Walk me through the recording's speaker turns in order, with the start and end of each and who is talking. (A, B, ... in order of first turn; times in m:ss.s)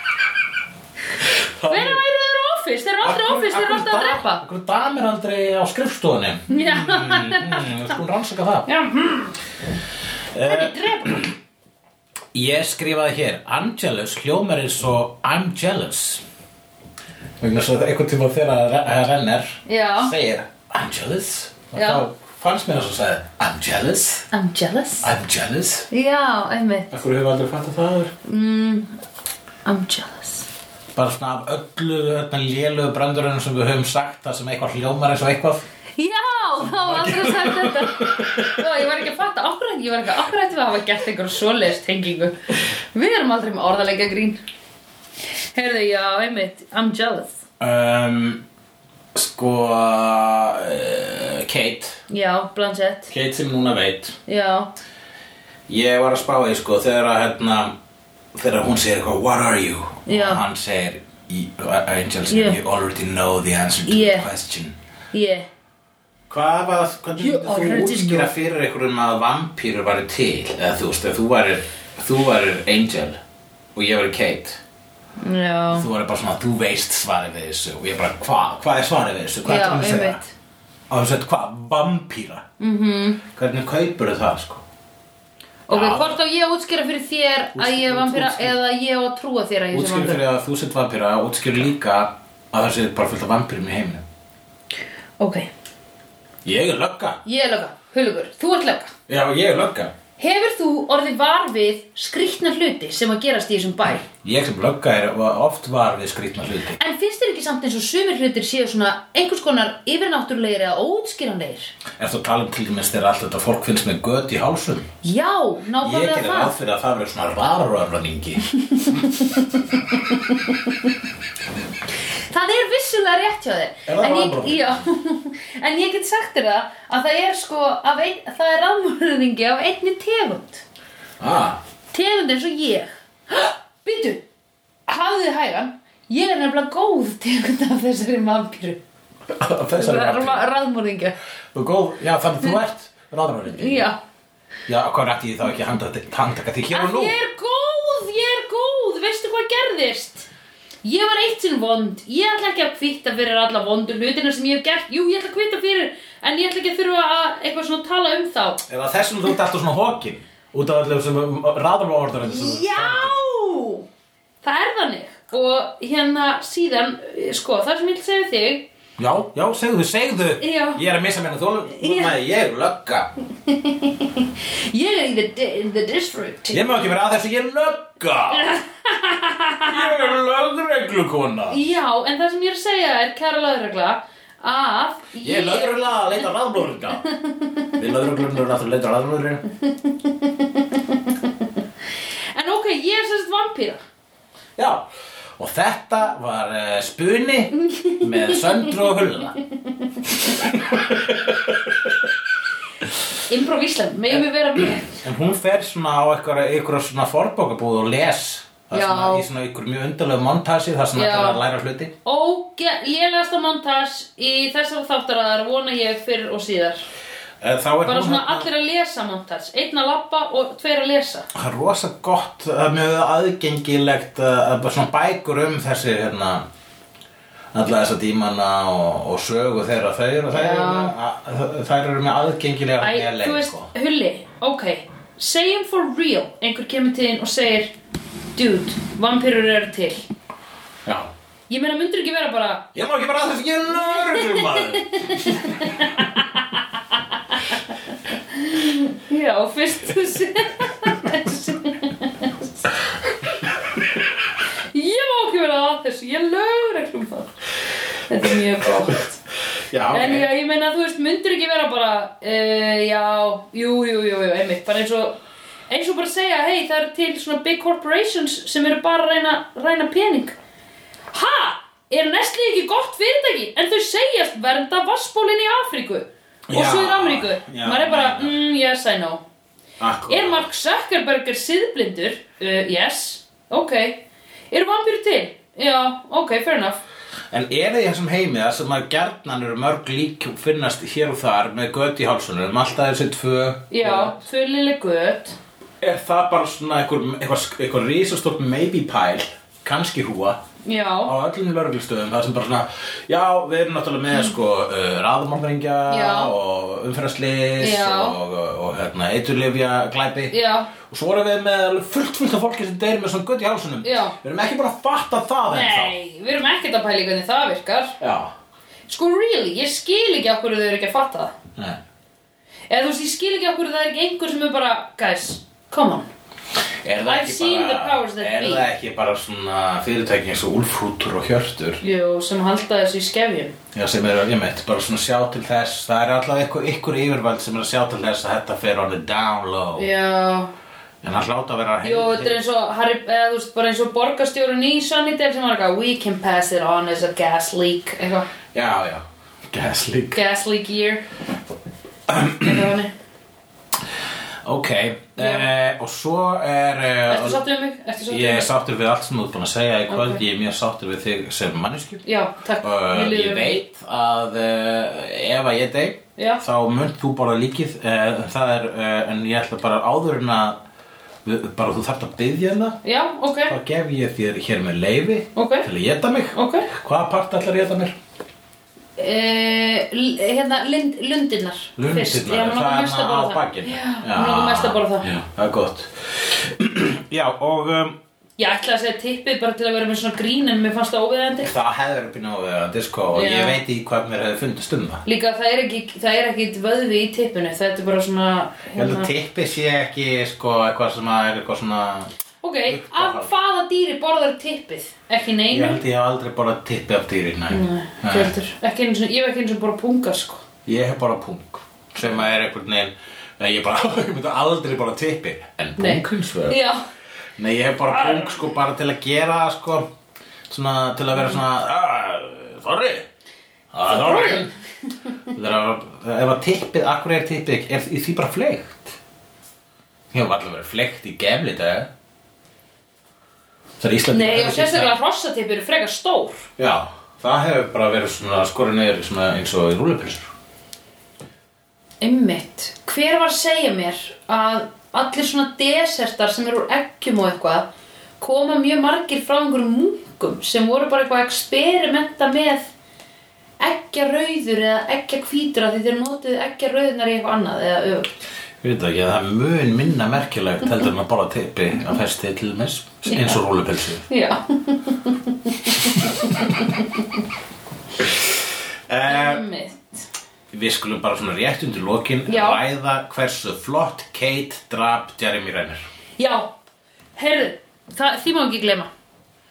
0:01.4-0:02.0 A
0:01.7-0:04.4 B
0:03.0-0:08.7 A
0:06.5-0:07.9 B
0:08.7-0:09.4 B
0:10.3-0:11.3 A
0:10.4-0:11.2 B
0:12.3-0:16.2 A
0:17.4-0:24.3 A
0:19.6-0:20.1 B
0:21.7-0:22.0 B
0:24.3-0:25.1 B
0:25.0-0:25.9 A
0:25.9-0:26.9 B
0:26.9-0:28.1 A
0:28.2-0:29.0 B
0:29.6-0:30.5 B
0:30.9-0:35.7 A
0:36.0-0:44.4 B
0:36.6-0:38.7 A
0:45.5-0:47.4 B
0:47.6-0:48.4 A
0:49.1-0:52.0 A
0:52.1-0:53.1 B
0:53.1-0:54.2 A
0:54.3-0:54.7 B
0:55.7-0:57.7 A
0:58.3-1:04.8 A
1:00.0-1:00.4 B
1:02.3-1:02.6 B
1:03.8-1:04.3 B
1:05.1-1:05.5 B
1:06.3-1:13.2 A
1:07.2-1:08.3 B
1:13.7-1:14.6 A
1:15.2-1:15.9 B
1:15.7-1:20.2 A
1:19.4-1:20.3 B
1:20.9-1:22.4 A
1:22.6-1:23.2 B
1:23.3-1:24.6 A
1:25.7-1:30.2 B
1:25.7-1:26.2 A
1:27.5-1:28.6 A
1:29.7-1:34.0 A
1:35.2-1:35.5 B
1:36.4-1:37.2 A
1:37.2-1:38.9 B
1:39.1-1:39.9 A
1:40.2-1:44.0 B
1:44.2-1:46.8 A
1:46.8-1:51.7 B
1:52.0-1:54.9 A
1:55.0-1:56.5 B
1:55.8-1:59.0 A
1:58.7-2:00.9 B
2:02.3-2:10.6 B
2:03.8-2:04.9 A
2:11.2-2:11.6 A
2:11.9-2:14.2 B
2:14.9-2:18.8 B
2:19.3-2:20.5 A
2:19.8-2:21.1 B
2:21.5-2:23.9 A
2:23.5-2:24.0 B
2:24.7-2:27.2 A
2:26.7-2:30.3 B
2:30.8-2:38.6 B
2:38.6-2:43.1 A
2:42.3-2:43.9 B
2:44.4-2:48.7 B
2:49.0-2:53.1 A
2:50.4-2:50.8 B
2:51.7-2:52.1 B
2:53.4-2:56.6 B
2:56.5-2:58.5 A
2:58.3-3:00.0 B
2:59.6-3:01.7 A
3:01.5-3:06.0 B
3:05.2-3:07.0 A
3:07.0-3:08.1 B
3:07.8-3:09.4 A
3:09.7-3:11.5 B
3:12.3-3:13.8 B
3:14.6-3:14.8 A
3:15.4-3:19.4 A
3:19.9-3:20.4 B
3:20.3-3:22.0 A
3:23.3-3:25.0 B
3:24.8-3:31.9 A
3:28.7-3:29.2 B
3:30.9-3:31.4 B
3:32.0-3:36.8 B
3:37.4-3:38.5 A
3:37.8-3:41.3 B
3:41.3-3:46.4 A
3:47.5-3:53.7 A
3:50.3-3:50.9 B
3:52.8-3:57.7 B
3:58.3-4:00.0 B
4:00.8-4:01.1 A
4:01.5-4:02.7 B
4:02.7-4:05.5 A
4:03.7-4:07.6 B
4:08.1-4:12.7 B
4:14.7-4:17.3 B
4:18.1-4:19.2 B
4:19.7-4:20.3 A
4:19.9-4:30.4 B
4:31.1-4:39.2 B
4:36.5-4:38.4 A
4:39.8-4:40.5 A
4:40.1-4:46.8 B
4:47.3-4:54.2 A
4:53.7-4:55.4 B
4:55.8-5:00.4 A
5:00.6-5:01.1 B
5:01.0-5:15.9 A
5:05.9-5:06.3 B
5:07.6-5:08.2 B
5:10.3-5:10.7 B
5:13.8-5:14.1 B
5:15.4-5:18.0 B
5:18.0-5:18.3 A
5:18.9-5:21.3 B
5:22.7-5:26.1 B
5:26.8-5:31.8 A
5:27.0-5:28.6 B
5:31.8-5:33.6 B
5:33.7-5:39.9 A
5:39.8-5:40.5 B
5:41.0-5:42.4 A
5:41.8-5:48.3 B
5:48.5-5:50.2 A
5:50.1-5:51.0 B
5:52.1-5:52.7 A
5:52.4-5:52.9 B
5:54.4-5:57.4 A
5:55.2-5:55.4 B
5:57.1-5:58.5 B
5:58.1-6:02.0 A
5:59.9-6:00.2 B
6:02.0-6:03.6 B
6:02.6-6:10.6 A
6:06.2-6:06.4 B
6:11.2-6:12.8 A
6:12.8-6:13.5 B
6:13.5-6:18.0 A
6:15.3-6:15.7 B
6:16.3-6:16.7 B
6:19.0-6:25.1 B
6:21.8-6:28.0 A
6:28.4-6:31.5 B
6:31.4-6:35.0 A
6:33.1-6:33.6 B
6:35.0-6:39.1 B
6:38.7-6:42.1 A
6:42.4-6:45.8 B
6:42.6-6:43.3 A
6:45.5-6:48.3 A
6:47.5-6:50.4 B
6:50.6-6:56.6 A
6:55.8-6:56.8 B
6:57.4-6:59.9 A
7:00.5-7:03.1 A
7:03.7-7:04.5 A
7:03.8-7:04.5 B
7:05.3-7:09.0 A
7:10.1-7:11.9 A
7:13.8-7:14.9 A
7:14.1-7:16.5 B
7:16.6-7:20.3 A
7:22.0-7:27.7 B
7:28.2-7:32.7 B
7:33.6-7:38.1 B
7:38.6-7:44.0 A
7:43.1-7:43.4 B
7:44.1-7:47.0 B
7:46.1-7:46.4 A
7:48.0-7:48.3 A
7:48.9-7:49.5 A
7:49.0-7:50.1 B
7:50.5-7:55.8 A
7:52.3-7:52.6 B
7:56.2-7:56.5 B
7:57.2-7:58.9 B